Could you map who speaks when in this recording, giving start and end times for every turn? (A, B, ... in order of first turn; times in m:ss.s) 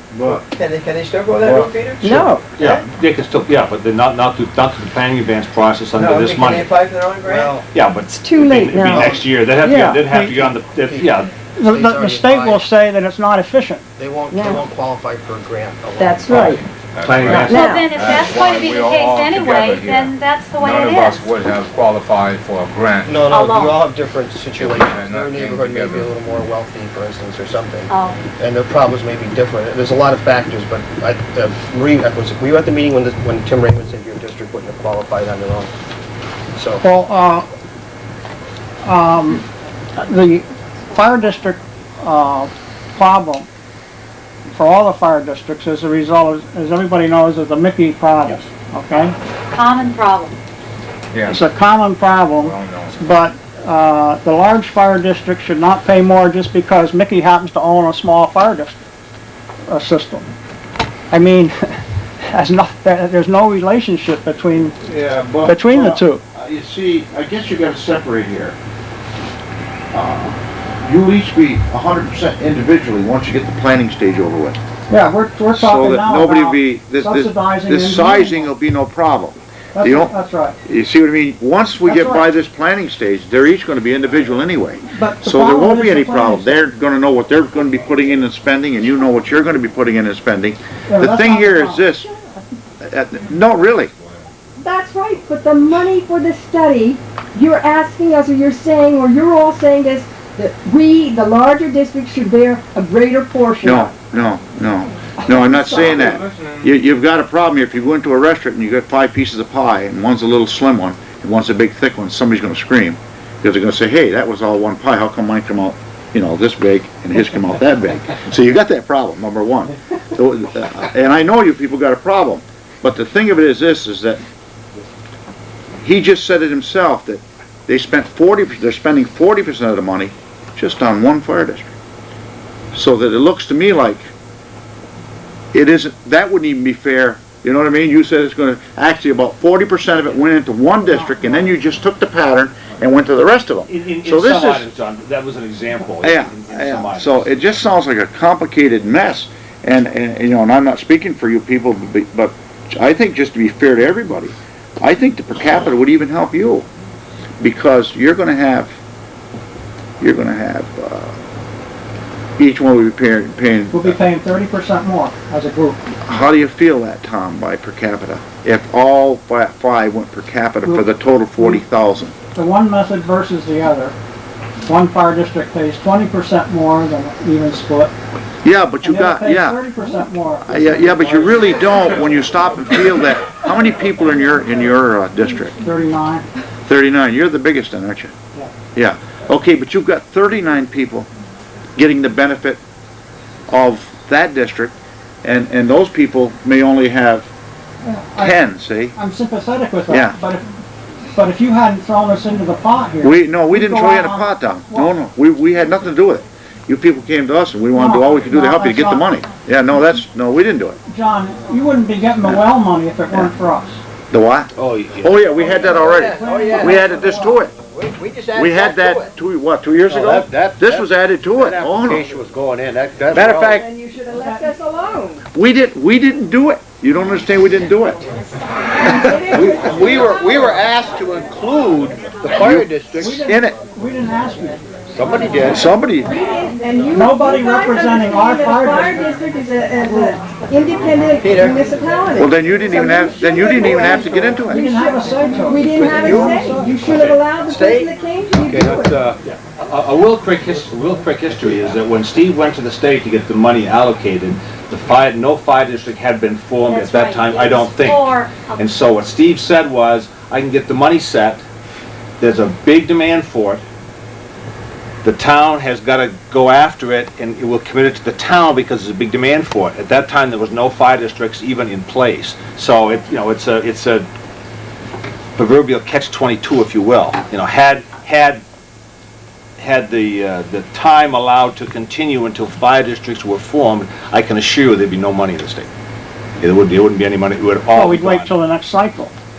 0:00.2-0:02.9 A
0:02.0-0:02.4 B
0:02.6-0:06.8 C
0:05.9-0:07.6 A
0:07.2-0:07.6 D
0:07.7-0:11.3 C
0:08.1-0:10.0 B
0:08.8-0:09.2 D
0:09.6-0:10.5 E
0:10.6-0:12.6 D
0:11.6-0:13.8 E
0:14.0-0:16.5 D
0:14.3-0:14.6 B
0:16.0-0:16.6 B
0:16.6-0:23.3 F
0:17.0-0:17.8 C
0:17.5-0:17.9 B
0:17.6-0:21.3 G
0:23.0-0:35.7 D
0:23.3-0:23.9 G
0:24.6-0:26.2 F
0:27.9-0:28.2 G
0:36.5-0:36.8 D
0:36.8-0:37.5 E
0:38.8-0:39.4 E
0:40.0-0:43.5 E
0:44.5-0:49.2 E
0:49.6-0:50.4 G
0:51.1-0:51.4 F
0:51.3-0:58.8 E
0:52.4-0:53.0 F
0:59.7-1:00.3 E
1:01.1-1:01.8 E
1:02.3-1:04.8 E
1:04.8-1:08.6 H
1:05.5-1:06.2 E
1:09.9-1:14.6 H
1:14.9-1:18.5 E
1:15.5-1:20.1 H
1:19.7-1:20.6 E
1:20.6-1:32.1 H
1:21.8-1:22.3 E
1:24.9-1:26.7 E
1:30.9-1:31.9 E
1:32.8-1:33.9 H
1:34.0-1:34.3 F
1:34.6-1:44.0 B
1:43.6-2:04.2 H
1:45.3-1:46.0 B
1:45.8-1:46.7 F
2:05.8-2:11.7 H
2:12.7-2:14.1 H
2:15.5-2:24.7 H
2:20.8-2:21.6 E
2:23.7-2:27.3 C
2:26.0-2:36.7 H
2:37.4-2:38.8 H
2:40.0-2:41.2 H
2:42.4-2:44.0 H
2:43.7-2:45.8 E
2:46.0-2:52.2 H
2:52.3-2:54.0 E
2:54.6-2:57.9 E
2:58.4-2:59.8 H
2:58.8-3:01.4 E
3:00.4-3:05.6 H
3:05.6-3:06.3 E
3:06.7-3:08.1 H
3:08.8-3:11.1 H
3:11.8-3:12.6 H
3:13.5-3:17.3 H
3:17.8-3:20.4 E
3:18.2-3:19.0 H
3:19.9-3:20.2 H
3:21.1-3:24.9 E
3:23.0-3:30.8 H
3:27.7-3:29.1 E
3:30.9-3:33.8 E
3:34.1-3:37.5 H
3:34.6-3:35.2 C
3:35.4-3:36.6 A
3:35.6-3:37.5 E
3:37.7-3:39.1 A
3:38.4-3:42.1 H
3:39.9-3:43.6 C
3:43.3-3:43.6 H
3:43.4-3:45.2 B
3:44.2-3:44.5 E
3:45.3-3:48.0 H
3:48.8-3:50.7 B
3:49.3-3:53.1 C
3:52.3-3:53.6 H
3:53.0-3:54.6 E
3:55.0-3:55.6 C
3:55.5-3:56.1 H
3:56.0-4:09.0 B
3:56.9-3:59.1 E
3:59.9-4:00.1 E
4:01.2-4:01.7 A
4:02.2-4:04.6 H
4:04.5-4:06.8 E
4:05.8-4:06.3 A
4:06.8-4:07.2 C
4:07.4-4:08.0 A
4:09.2-4:21.4 C
4:16.7-4:18.7 G
4:22.2-4:23.6 C
4:25.0-4:34.1 C
4:35.4-4:38.4 C
4:39.6-4:45.7 C
4:46.4-4:48.3 C
4:47.7-4:49.1 E